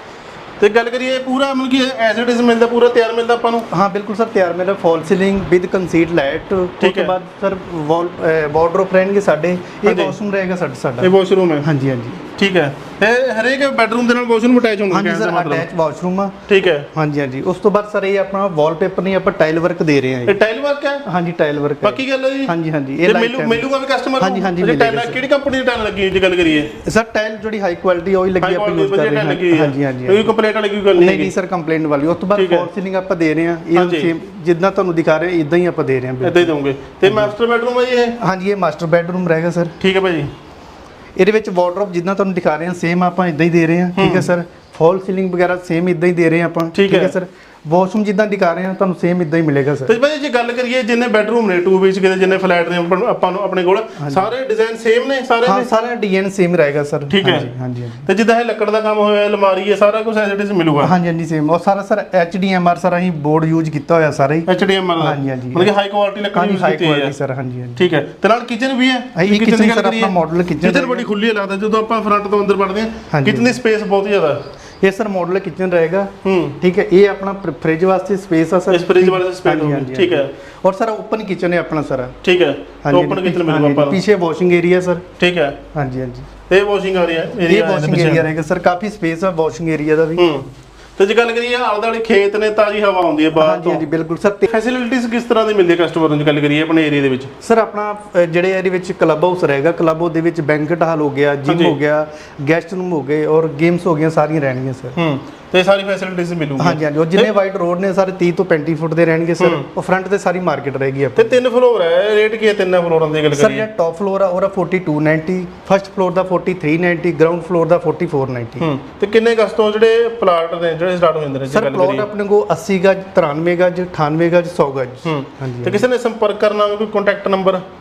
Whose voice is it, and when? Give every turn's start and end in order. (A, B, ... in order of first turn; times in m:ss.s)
0:00.6-0:03.7 A
0:03.7-0:12.2 B
0:06.8-0:07.1 A
0:09.8-0:10.2 A
0:11.0-0:11.7 A
0:12.4-0:15.7 A
0:14.9-0:16.3 B
0:16.5-0:16.9 A
0:16.9-0:20.4 B
0:20.3-0:21.0 A
0:21.0-0:25.2 B
0:21.8-0:26.7 A
0:26.7-0:30.3 B
0:28.4-0:31.3 A
0:31.0-0:36.5 B
0:32.3-0:32.7 A
0:33.7-0:34.1 A
0:36.2-0:38.2 A
0:37.0-0:37.4 B
0:38.2-0:39.8 B
0:39.8-0:40.3 A
0:41.2-0:49.9 B
0:44.0-0:44.3 A
0:46.7-0:47.2 A
0:49.8-0:55.7 A
0:54.0-0:54.3 B
0:55.4-0:58.1 B
0:57.1-0:57.5 A
0:58.0-1:00.9 A
1:00.8-1:05.7 B
1:04.5-1:07.1 A
1:06.3-1:07.9 B
1:07.8-1:14.4 A
1:09.2-1:11.1 B
1:13.1-1:13.6 B
1:14.8-1:22.2 B
1:16.2-1:16.6 A
1:18.7-1:20.3 A
1:22.2-1:24.0 A
1:22.8-1:25.0 B
1:25.2-1:25.6 A
1:25.7-1:26.3 B
1:26.5-1:28.3 A
1:27.4-1:30.3 B
1:30.2-1:33.8 A
1:33.4-1:34.5 B
1:34.5-1:37.3 A
1:37.4-1:45.0 B
1:41.5-1:41.8 A
1:45.0-1:47.3 A
1:46.6-1:51.4 B
1:49.4-1:49.6 A
1:51.2-1:53.7 A
1:53.3-1:58.7 B
1:58.6-2:02.1 A
2:01.5-2:05.9 B
2:05.0-2:07.6 A